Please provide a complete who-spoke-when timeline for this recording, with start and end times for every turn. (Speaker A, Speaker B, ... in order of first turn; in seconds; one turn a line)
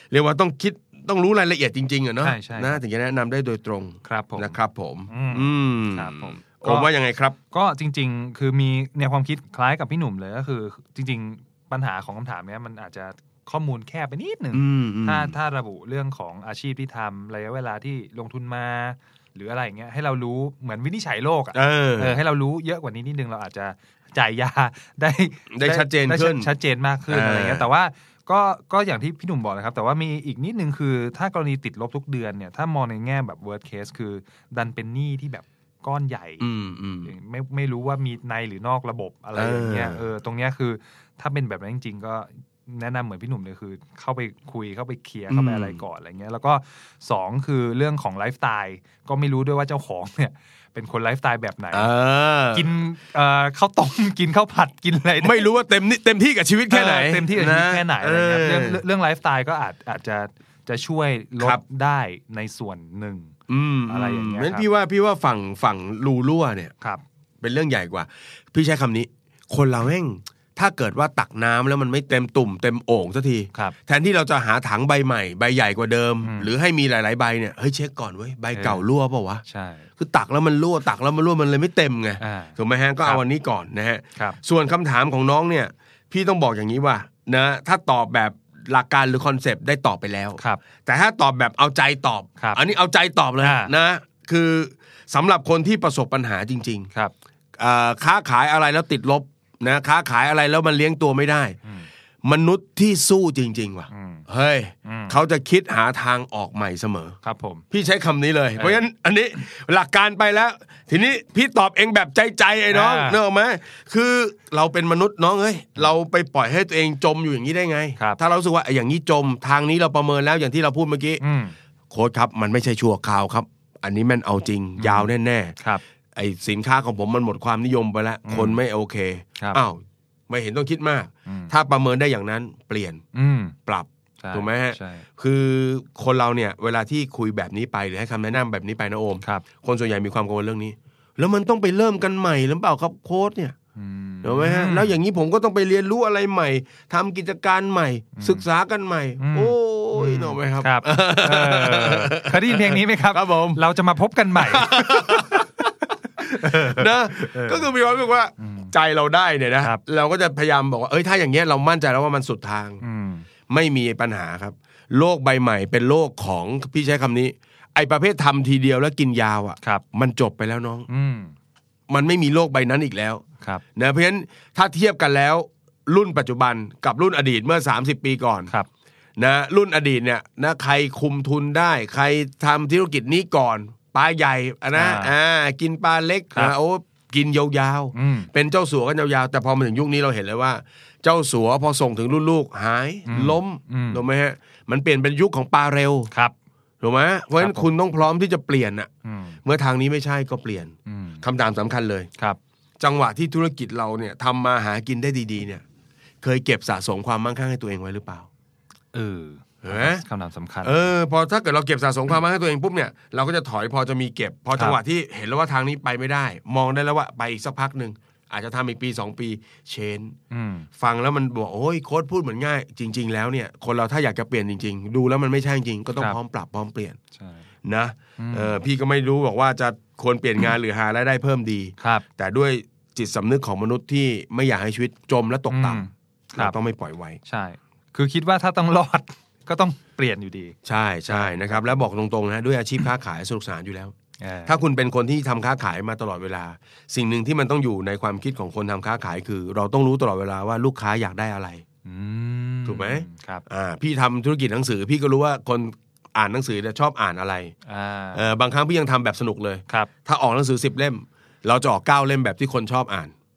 Speaker A: 0.1-7.3
Speaker B: 2.2-2.8
Speaker B: 4.0-4.5
Speaker B: 5.1-6.9
Speaker B: 7.5-36.5
Speaker A: 14.5-15.4
Speaker A: 21.5-22.2
Speaker A: 25.5-26.5
Speaker A: 27.1-27.7
Speaker A: 36.4-37.1
Speaker B: 37.0-51.9
Speaker A: 39.3-40.1
Speaker A: 45.3-45.8
Speaker A: 51.7-52.7
Speaker B: 52.5-55.5
Speaker A: 55.2-58.8
Speaker B: 56.7-63.3
Speaker A: 63.5-66.7
Speaker B: 63.9-64.7
Speaker A: 67.4-79.4
Speaker B: 76.2-76.5
Speaker B: 78.5-78.8
Speaker B: 79.4-79.9
Speaker A: 80.0-96.9
Speaker B: 82.2-83.2
Speaker B: 90.4-90.6
Speaker B: 93.4-93.7
Speaker A: 97.6-101.5
Speaker A: 102.2-107.2
Speaker B: 103.9-104.2
Speaker B: 104.8-105.2
Speaker B: 107.2-107.6
Speaker A: 107.7-121.2
Speaker B: 108.6-108.8
Speaker B: 112.7-113.2
Speaker B: 121.2-121.5
Speaker A: 121.9-125.5
Speaker B: 124.8-125.8
Speaker A: 126.2-133.0
Speaker B: 128.2-128.6
Speaker B: 131.2-131.5
Speaker B: 133.1-133.6
Speaker A: 133.7-143.5
Speaker B: 134.2-135.1
Speaker B: 143.8-144.9
Speaker A: 144.2-153.6
Speaker B: 148.1-148.4
Speaker B: 149.2-155.7
Speaker A: 154.3-155.5
Speaker B: 156.2-157.7
Speaker A: 156.4-162.8
Speaker B: 158.4-158.7
Speaker B: 162.8-163.3
Speaker A: 163.5-170.9
Speaker B: 170.9-171.3
Speaker A: 171.9-173.2
Speaker A: 173.8-178.5
Speaker A: 179.2-196.1
Speaker B: 184.7-185.1
Speaker B: 187.9-188.3
Speaker B: 193.1-194.0
Speaker A: 196.8-198.9
Speaker B: 197.3-197.7
Speaker B: 199.0-199.4
Speaker A: 199.4-202.1
Speaker B: 200.8-201.2
Speaker A: 202.8-205.6
Speaker A: 206.2-208.3
Speaker B: 208.9-210.9
Speaker A: 209.6-210.0
Speaker A: 210.6-220.1
Speaker B: 220.3-220.7
Speaker A: 220.8-227.0
Speaker B: 227.1-227.4
Speaker A: 227.6-237.2
Speaker B: 228.2-228.6
Speaker B: 231.8-232.1
Speaker B: 235.5-236.6
Speaker B: 237.2-240.6
Speaker A: 240.6-243.9
Speaker B: 241.1-241.7
Speaker B: 244.2-244.6
Speaker A: 244.4-251.6
Speaker B: 251.8-253.4
Speaker A: 252.7-257.5
Speaker B: 257.6-258.2
Speaker A: 258.1-263.1